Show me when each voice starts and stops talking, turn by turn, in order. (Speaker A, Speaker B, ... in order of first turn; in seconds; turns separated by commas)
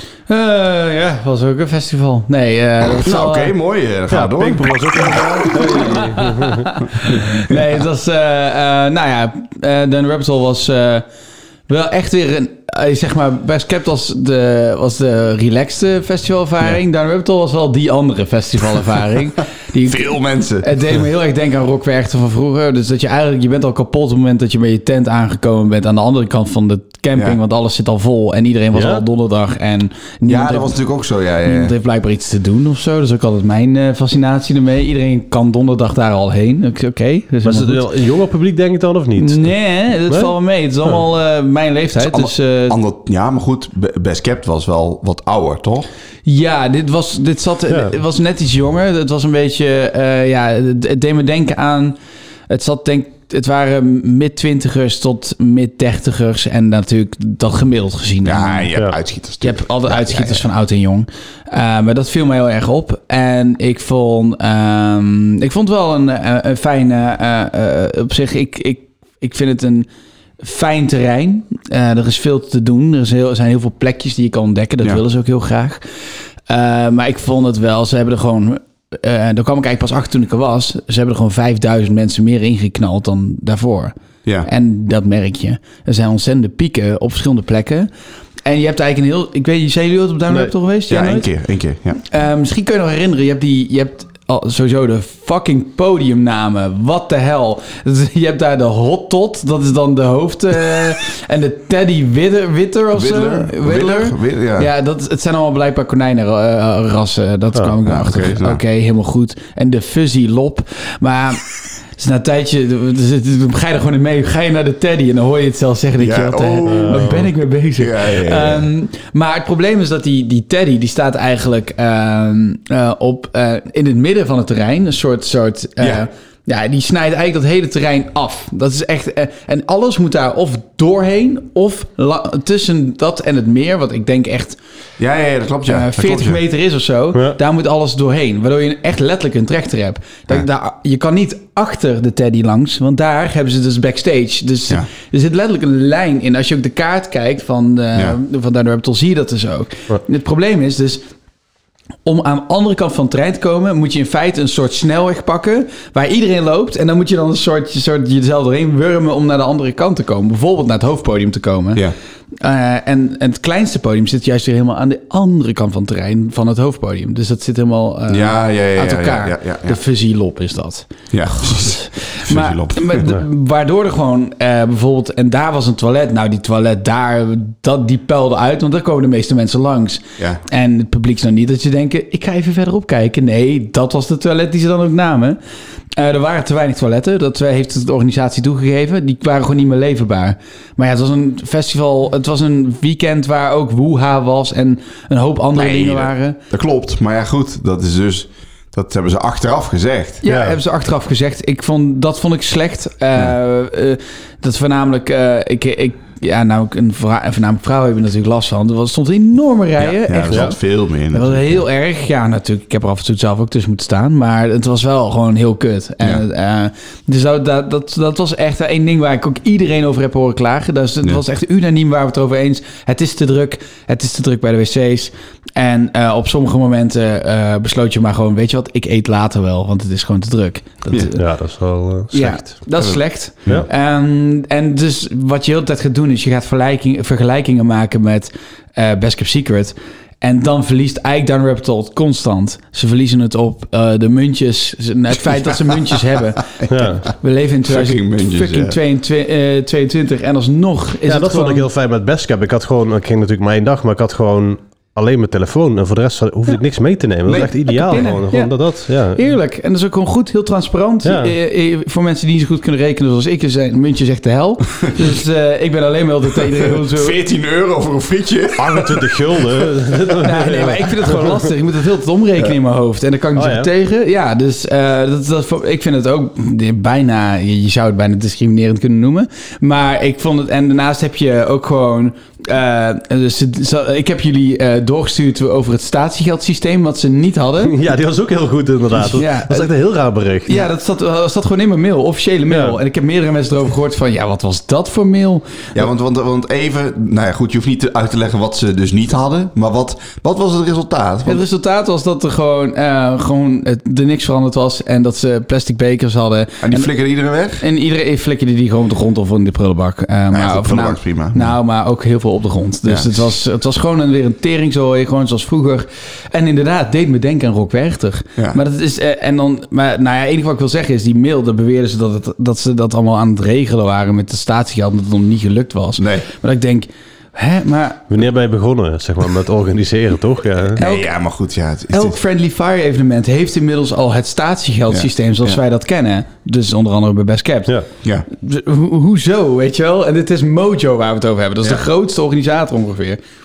Speaker A: 0.3-3.5, Speaker B: 3.0-5.8, Speaker C: 4.1-6.8, Speaker A: 5.6-11.1, Speaker A: 11.7-30.7, Speaker B: 19.8-20.7, Speaker C: 28.7-29.0, Speaker B: 30.2-31.7, Speaker A: 31.4-37.8, Speaker C: 37.4-39.5, Speaker A: 39.2-42.8, Speaker B: 41.9-45.9, Speaker A: 46.2-52.0, Speaker A: 52.5-58.7, Speaker B: 58.2-60.4, Speaker A: 59.4-69.9, Speaker A: 70.4-75.8, Speaker A: 76.5-87.9, Speaker A: 88.4-91.3, Speaker B: 90.9-92.0, Speaker A: 92.1-134.6, Speaker B: 102.9-104.7, Speaker B: 107.8-108.6, Speaker B: 116.0-117.2, Speaker C: 116.6-117.2, Speaker B: 117.8-118.7, Speaker B: 135.0-136.4, Speaker A: 135.7-151.1, Speaker A: 152.0-161.8, Speaker A: 162.4-185.4, Speaker B: 168.1-169.8, Speaker B: 171.1-173.2, Speaker A: 185.9-196.4, Speaker B: 195.5-200.2, Speaker A: 200.2-210.6, Speaker C: 200.3-200.6, Speaker B: 209.8-211.6, Speaker A: 211.1-231.2, Speaker C: 231.2-232.5, Speaker A: 232.1-251.6, Speaker B: 232.7-233.7, Speaker B: 246.6-246.9, Speaker C: 246.7-247.1, Speaker B: 247.6-248.8, Speaker C: 251.1-259.2, Speaker B: 257.2-258.1, Speaker A: 257.6-267.2, Speaker C: 261.0-261.3, Speaker B: 266.8-269.1, Speaker C: 268.6-271.3, Speaker A: 270.2-287.7, Speaker C: 273.4-273.7, Speaker C: 287.6-290.7, Speaker A: 289.0-289.7, Speaker A: 290.4-295.6, Speaker C: 292.5-292.8, Speaker B: 295.7-301.4, Speaker A: 301.2-306.9, Speaker B: 306.6-307.6, Speaker A: 307.6-328.1, Speaker B: 310.3-311.6, Speaker B: 312.9-313.2, Speaker B: 326.0-326.3, Speaker C: 328.1-330.8, Speaker B: 330.8-332.2, Speaker A: 330.8-331.1, Speaker A: 331.9-337.7, Speaker B: 334.9-335.6, Speaker A: 338.3-343.2